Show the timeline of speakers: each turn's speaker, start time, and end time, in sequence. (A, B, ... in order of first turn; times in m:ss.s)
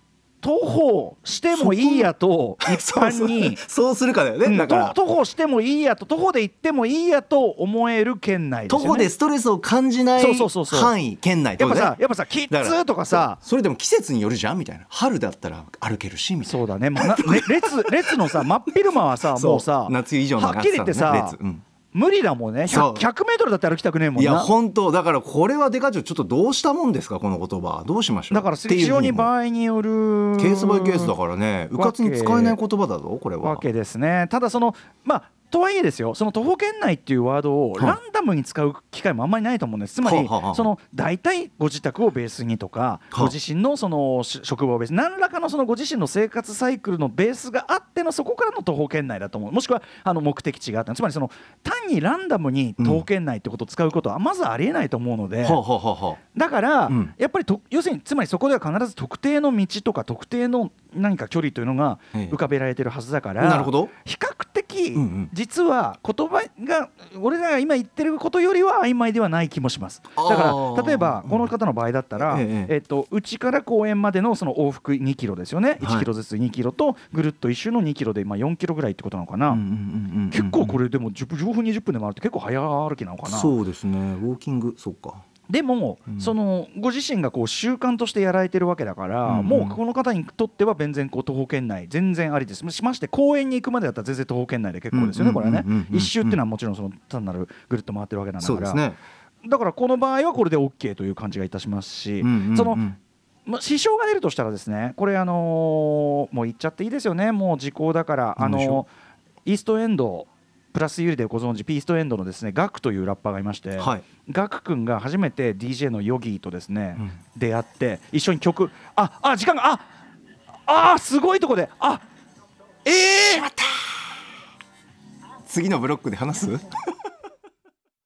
0:00.4-0:03.6 A
0:01.5-0:05.0 B
0:04.4-0:09.1 A
0:08.7-0:12.0 B
0:10.2-0:10.9 A
0:11.6-0:13.4 A
0:12.5-0:18.4 B
0:16.4-0:21.4 A
0:19.3-0:21.6 B
0:21.9-0:24.5 A
0:22.7-0:23.0 B
0:24.2-0:29.3 B
0:28.3-0:31.1 A
0:30.4-0:33.6 B
0:31.8-0:32.6 A
0:33.4-0:55.6 A
0:40.0-0:40.7 B
0:52.8-0:53.0 B
0:55.4-0:56.2 B
0:56.3-1:19.6 A
0:56.9-0:57.1 B
1:03.4-1:03.9 B
1:04.9-1:05.3 B
1:10.2-1:11.5 B
1:12.2-1:12.7 B
1:15.8-1:16.1 B
1:19.5-1:20.8 B
1:20.3-1:23.5 A
1:23.2-1:25.2 B
1:25.5-1:38.8 A
1:26.1-1:26.3 B
1:29.2-1:29.8 B
1:34.9-1:36.4 B
1:38.4-1:39.0 B
1:39.4-1:42.8 A
1:42.2-1:43.0 B
1:43.4-1:48.9 A
1:48.4-1:48.8 B
1:49.4-1:59.9 A
1:53.8-1:54.0 B
2:00.7-2:02.0 A
2:02.8-2:03.5 A
2:03.2-2:03.9 B
2:05.4-2:06.7 B